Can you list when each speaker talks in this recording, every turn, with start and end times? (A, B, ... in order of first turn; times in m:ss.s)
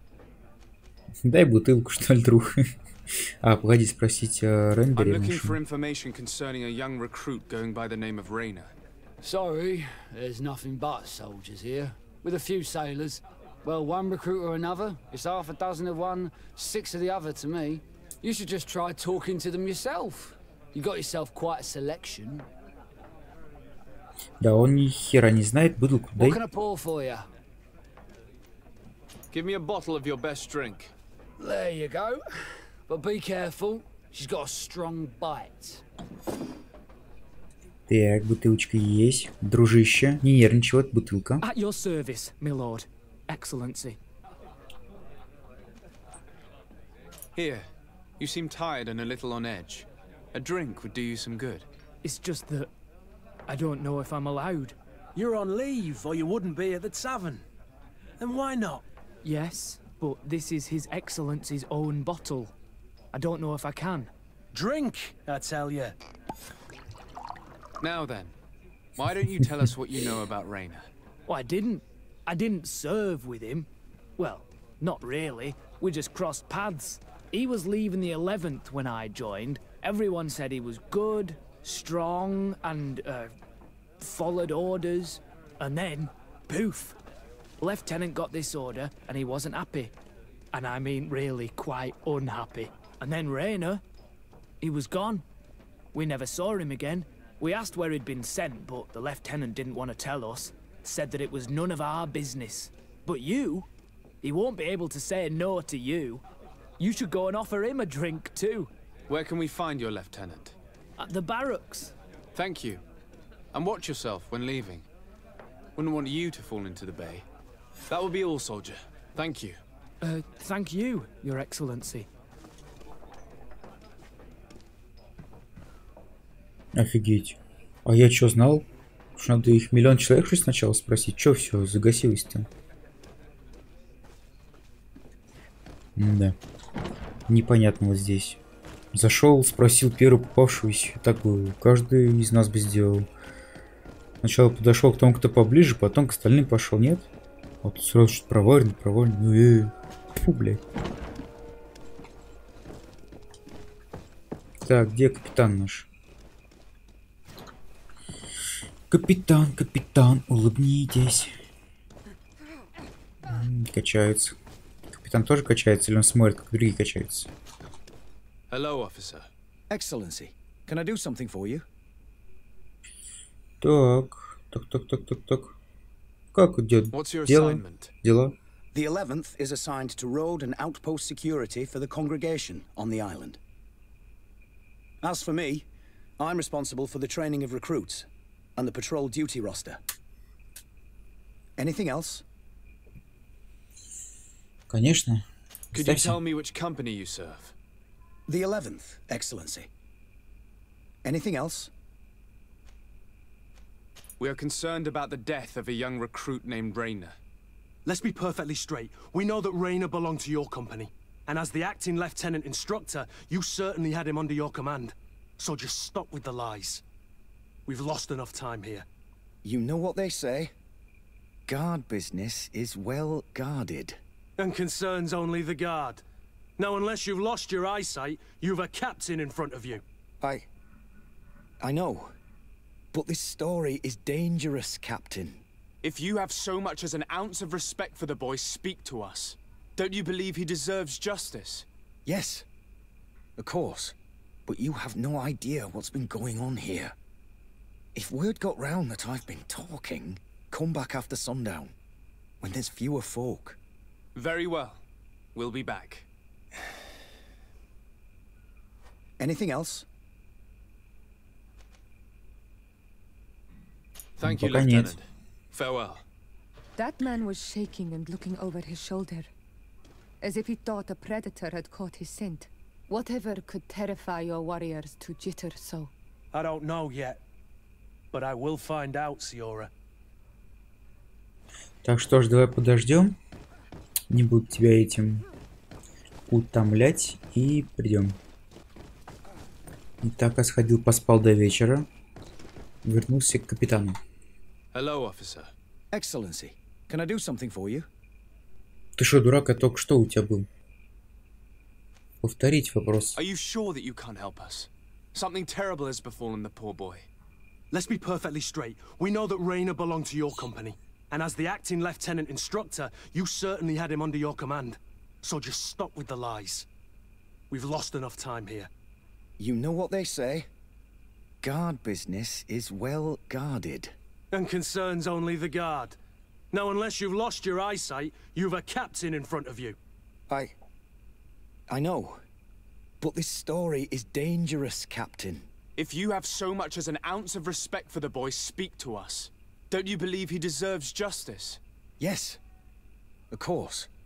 0:01.2-0:05.6 A
0:05.0-0:08.7 B
0:09.2-0:22.5 C
0:24.4-0:26.4 A
0:26.2-0:27.3 C
0:29.3-0:30.9 B
0:31.4-0:35.8 C
0:37.9-0:41.4 A
0:41.4-0:44.0 D
0:47.4-0:47.7 B
0:48.2-0:51.7 B
0:52.0-0:52.7 D
0:53.5-0:54.8 D
0:55.2-0:57.4 E
0:58.2-0:58.8 E
0:59.2-1:02.5 D
1:03.1-1:04.1 D
1:04.5-1:06.0 E
1:07.8-1:08.3 B
1:09.0-1:10.9 B
1:11.3-1:23.4 D
1:24.0-1:27.0 D
1:27.6-1:29.9 D
1:30.5-1:33.8 D
1:34.6-1:35.2 D
1:35.9-1:43.7 D
1:44.2-1:46.2 D
1:46.8-1:48.7 D
1:49.1-1:50.6 B
1:51.0-1:51.9 D
1:52.4-1:52.8 B
1:53.5-1:54.9 B
1:55.8-1:57.2 B
1:57.9-1:59.6 B
2:00.0-2:02.1 D
2:06.8-2:12.5 A
2:16.0-2:16.4 A
2:17.3-2:18.4 A
2:18.9-2:23.1 A
2:24.2-2:27.1 A
2:27.6-2:30.6 A
2:34.6-2:35.9 A
2:38.9-2:41.3 A
2:43.2-2:44.4 A
2:44.9-2:47.3 A
2:48.5-2:49.3 B
2:49.7-2:51.6 F
2:53.6-2:55.6 A
2:56.3-2:58.4 A
2:56.9-2:57.9 B
2:58.7-3:03.4 F
3:05.0-3:05.7 F
3:06.2-3:09.8 F
3:11.6-3:12.2 F
3:14.7-3:16.2 A
3:15.7-3:17.5 B
3:18.3-3:19.7 F
3:21.0-3:21.7 F
3:24.2-3:27.2 B
3:27.9-3:36.8 E
3:37.7-3:38.9 E
3:39.4-3:40.5 F
3:41.5-3:44.0 F
3:44.4-3:46.0 E
3:46.6-3:49.8 E
3:50.2-3:50.5 F
3:51.6-3:52.1 F
3:52.9-3:55.4 F
3:55.8-4:01.7 B
4:02.1-4:02.5 F
4:03.4-4:04.0 F
4:04.5-4:07.0 F
4:08.0-4:11.7 F
4:12.4-4:13.6 F
4:14.2-4:14.8 B
4:15.3-4:16.1 B
4:19.2-4:19.9 F
4:24.2-4:26.0 B
4:24.2-4:25.0 A
4:26.8-4:29.3 G
4:30.2-4:35.9 G
4:36.3-4:37.2 E
4:38.1-4:39.7 E
4:41.8-4:43.2 A
4:44.1-4:45.2 A
4:46.3-4:48.2 A
4:50.0-4:51.9 A
4:52.8-4:54.0 A
4:54.7-4:55.5 B
4:55.9-4:57.9 F
4:59.0-5:00.5 A
5:02.2-5:03.2 A
5:03.2-5:07.1 B
5:07.7-5:16.7 E
5:17.5-5:18.7 E
5:19.4-5:20.5 F
5:21.4-5:23.9 F
5:24.3-5:26.0 E
5:26.5-5:29.8 E
5:30.3-5:30.6 F
5:31.7-5:32.2 F
5:33.0-5:35.5 F
5:35.8-5:41.6 B
5:42.0-5:42.4 F
5:43.3-5:43.9 F